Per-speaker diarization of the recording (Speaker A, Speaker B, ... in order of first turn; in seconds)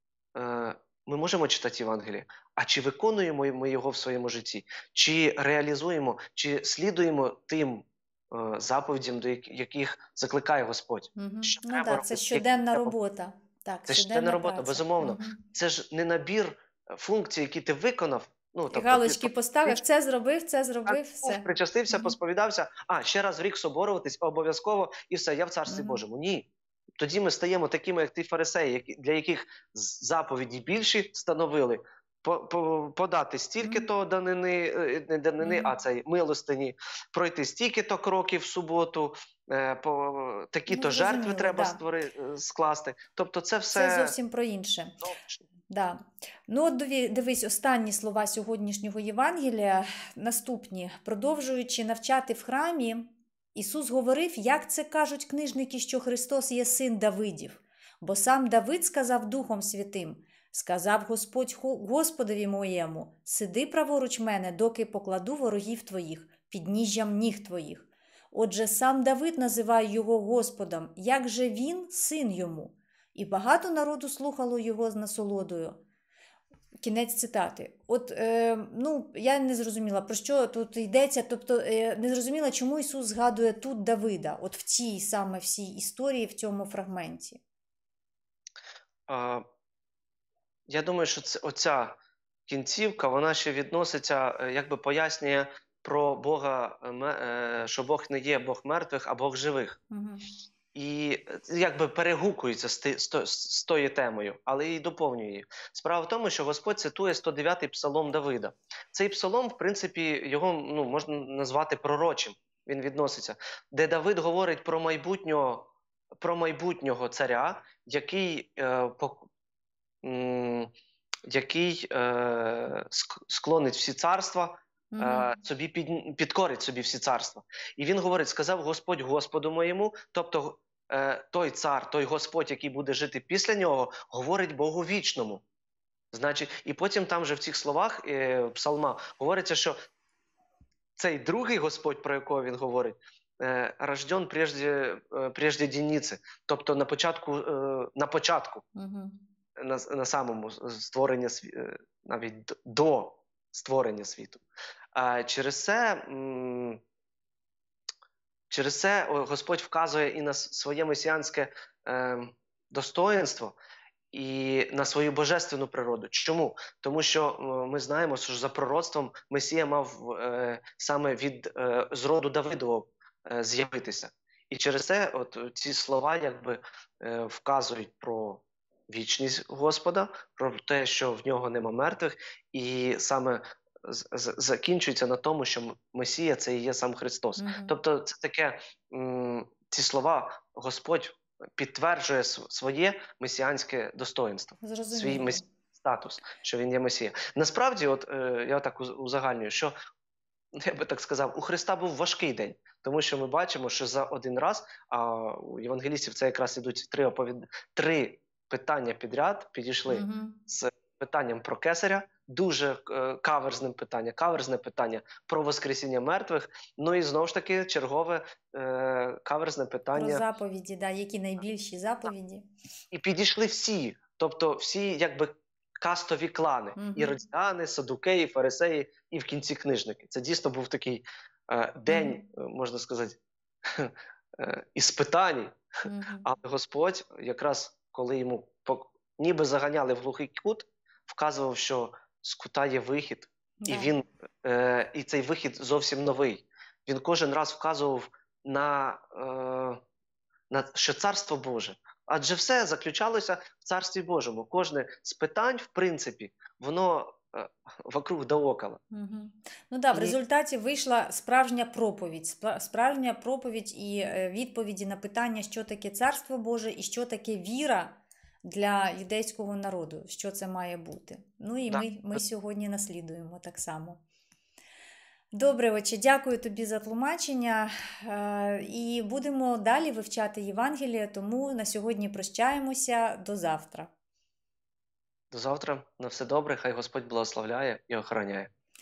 Speaker A: 0.3-12.9, 13.9-19.8, 20.9-44.1, 45.0-45.4, 89.1-89.4, 90.7-99.8, 100.7-119.3, 120.0-120.7, 121.3-135.4, 136.1-139.8, 141.0-148.7, 149.6-154.4, 154.9-156.8, 158.5-163.6, 164.1-199.8, 200.6-220.2, 222.9-235.6, 236.2-249.8, 250.5-258.8, 271.7-272.2, 285.3-288.5
Speaker B: 11.2-15.4, 18.7-22.2, 25.7-26.0, 33.6-33.9, 35.4-35.8, 40.7-41.8, 43.7-45.0, 45.7-75.8, 76.8-87.4, 99.9-100.3, 124.9-125.3, 148.8-149.2, 187.4-187.8, 194.6-195.5, 209.9-210.4, 219.9-222.5, 226.8-227.2, 231.9-232.2, 235.8-236.3, 243.6-243.9, 258.9-274.0, 275.3-283.9